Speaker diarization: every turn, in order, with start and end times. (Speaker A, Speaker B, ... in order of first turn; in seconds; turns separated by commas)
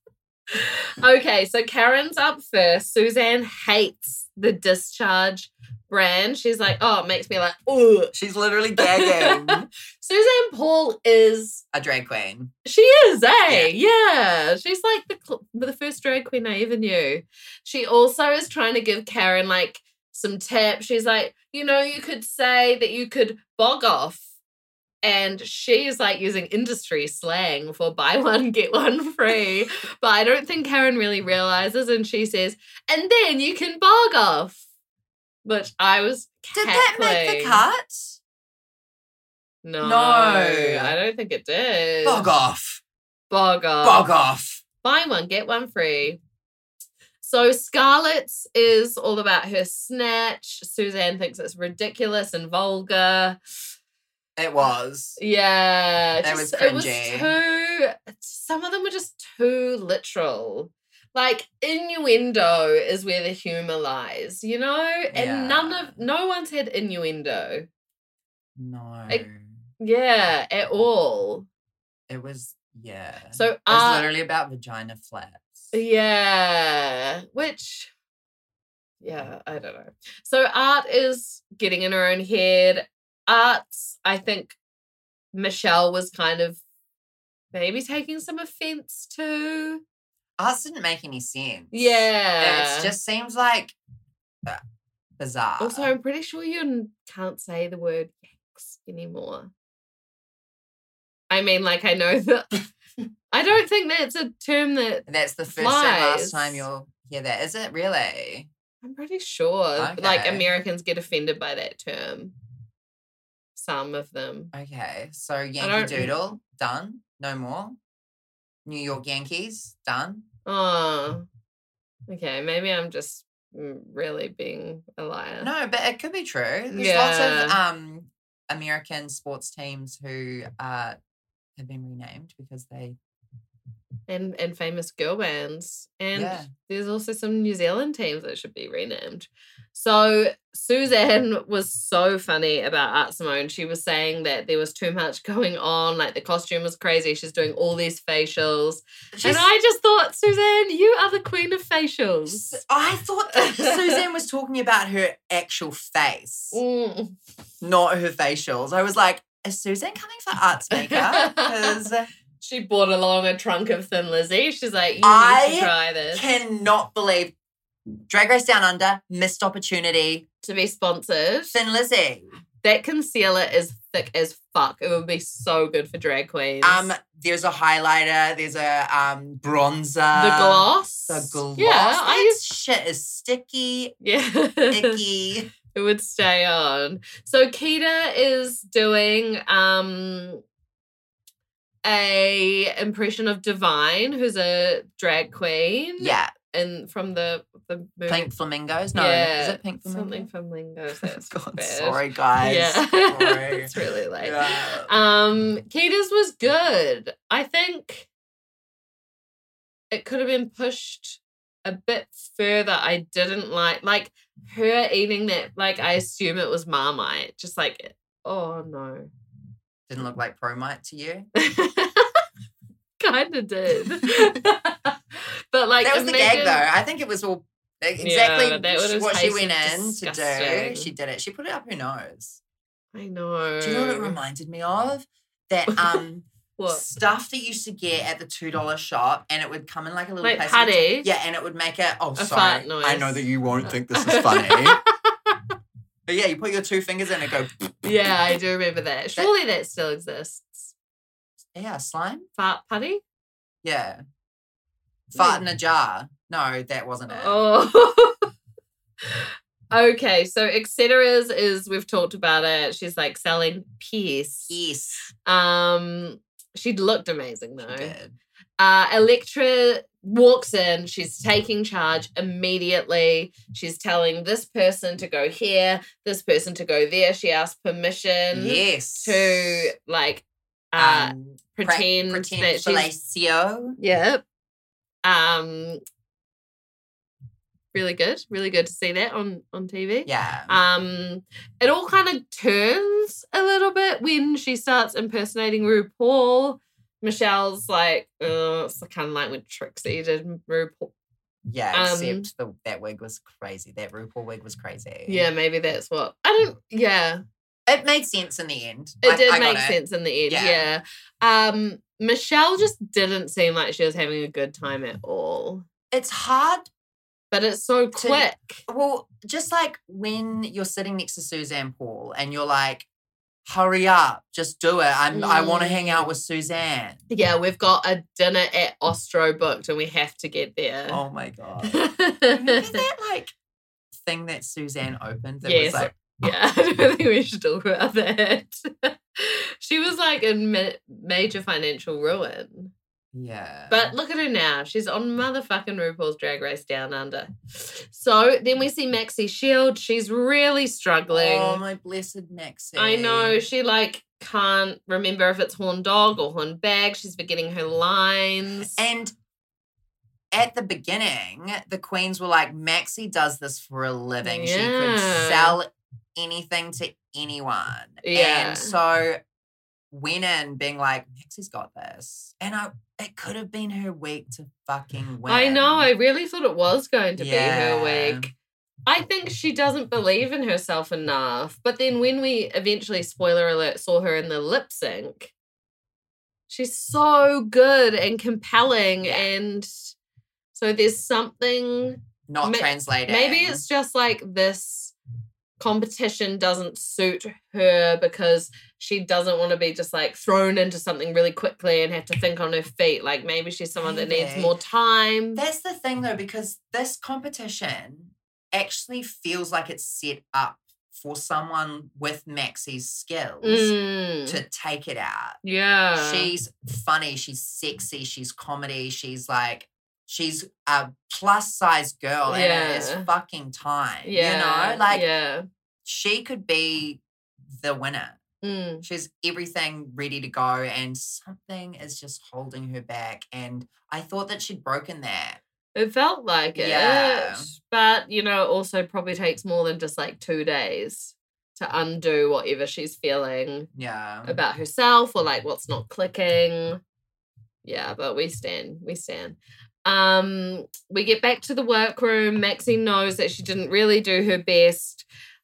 Speaker A: 0.5-8.1, Speaker B: 8.1-9.7, Speaker A: 8.8-11.6, Speaker B: 11.7-12.5, Speaker A: 12.7-24.2, Speaker B: 13.5-13.7, Speaker A: 25.0-34.6, Speaker A: 35.4-37.6, Speaker B: 36.5-38.2, Speaker A: 39.6-42.5, Speaker B: 39.8-41.0, Speaker B: 42.0-42.8, Speaker A: 43.3-44.1, Speaker B: 43.8-44.6, Speaker A: 44.8-46.2, Speaker A: 47.2-53.4, Speaker B: 54.4-55.2, Speaker A: 55.2-67.7, Speaker B: 56.2-57.3, Speaker B: 65.1-66.0, Speaker B: 68.6-69.5, Speaker A: 69.8-71.5, Speaker B: 72.1-75.7, Speaker A: 73.3-74.1, Speaker A: 75.7-77.9, Speaker A: 79.0-84.6, Speaker A: 85.3-86.6, Speaker A: 87.5-89.8, Speaker B: 90.4-93.8, Speaker A: 91.7-92.9, Speaker B: 95.2-95.9, Speaker A: 95.6-99.5, Speaker A: 101.3-102.7, Speaker A: 103.3-106.7, Speaker B: 105.1-108.5, Speaker A: 108.8-112.3, Speaker B: 109.8-110.5, Speaker A: 113.5-114.5, Speaker B: 114.5-117.8, Speaker A: 115.6-116.2, Speaker B: 118.7-120.3, Speaker A: 120.5-121.3, Speaker A: 122.1-125.5, Speaker B: 125.4-131.0, Speaker A: 126.7-127.6, Speaker B: 131.6-133.0, Speaker A: 134.1-152.6, Speaker B: 136.1-136.5, Speaker B: 149.1-149.5, Speaker B: 152.3-156.6, Speaker A: 153.3-154.0, Speaker A: 156.5-157.2, Speaker B: 157.6-162.1, Speaker A: 160.7-161.8, Speaker A: 162.4-166.2, Speaker B: 165.0-167.3, Speaker B: 168.1-170.3, Speaker A: 170.4-171.6, Speaker B: 171.5-172.3, Speaker A: 172.6-176.9, Speaker B: 176.6-183.9, Speaker A: 180.1-182.4, Speaker A: 184.0-185.0, Speaker B: 184.7-185.5, Speaker A: 185.7-190.4, Speaker A: 191.8-198.3, Speaker B: 196.0-196.3, Speaker B: 198.1-200.3, Speaker A: 198.9-208.1, Speaker B: 201.0-204.9, Speaker A: 209.9-219.1, Speaker B: 219.9-221.3, Speaker A: 221.4-222.2, Speaker A: 223.0-226.7, Speaker B: 225.8-232.4, Speaker A: 228.0-230.9, Speaker A: 232.9-234.2, Speaker B: 233.6-244.8, Speaker A: 235.7-236.0, Speaker A: 236.6-236.8, Speaker A: 240.2-241.1, Speaker A: 242.2-245.5, Speaker B: 246.1-247.6, Speaker A: 247.8-250.7, Speaker B: 251.6-252.3, Speaker A: 252.4-253.0, Speaker B: 253.6-254.0, Speaker A: 255.1-255.5, Speaker B: 255.1-257.4, Speaker A: 257.1-258.3, Speaker A: 259.0-264.6, Speaker B: 264.5-265.1, Speaker A: 265.3-267.9, Speaker B: 267.6-268.2, Speaker A: 268.6-282.9, Speaker B: 278.3-279.7, Speaker B: 280.8-283.8, Speaker A: 283.8-284.2, Speaker A: 285.0-285.8, Speaker A: 287.7-300.9, Speaker B: 290.1-290.6, Speaker B: 301.5-305.3, Speaker A: 301.7-302.3, Speaker A: 305.1-307.2, Speaker B: 307.7-309.8, Speaker A: 309.0-315.7, Speaker B: 310.3-310.7, Speaker B: 315.9-316.7, Speaker A: 317.3-318.6, Speaker B: 317.9-322.9, Speaker B: 323.5-327.0, Speaker A: 325.1-326.1, Speaker A: 327.1-331.0, Speaker B: 330.9-333.3, Speaker A: 331.6-332.8, Speaker B: 333.9-336.0, Speaker A: 335.4-342.7, Speaker B: 343.1-343.9, Speaker A: 343.7-351.6, Speaker B: 351.1-353.5, Speaker A: 352.8-358.8, Speaker B: 358.6-359.1, Speaker B: 360.3-369.2, Speaker A: 364.2-365.6, Speaker A: 368.0-368.8, Speaker B: 369.9-375.9, Speaker A: 375.3-378.3, Speaker B: 377.2-378.3, Speaker A: 378.9-385.3, Speaker A: 386.5-389.9, Speaker B: 389.0-389.3, Speaker A: 390.5-394.9, Speaker B: 392.3-393.6, Speaker A: 395.6-405.4, Speaker B: 403.8-404.5, Speaker B: 405.4-413.7, Speaker A: 413.4-414.4, Speaker B: 414.2-415.4, Speaker A: 415.4-416.3, Speaker B: 415.9-425.1, Speaker A: 422.3-423.1, Speaker A: 424.1-425.4, Speaker B: 425.9-427.0, Speaker B: 427.5-428.2, Speaker A: 428.4-428.9, Speaker B: 428.8-435.4, Speaker A: 435.8-443.7, Speaker B: 436.6-437.5, Speaker B: 443.7-444.4, Speaker A: 444.2-446.8, Speaker A: 447.6-455.1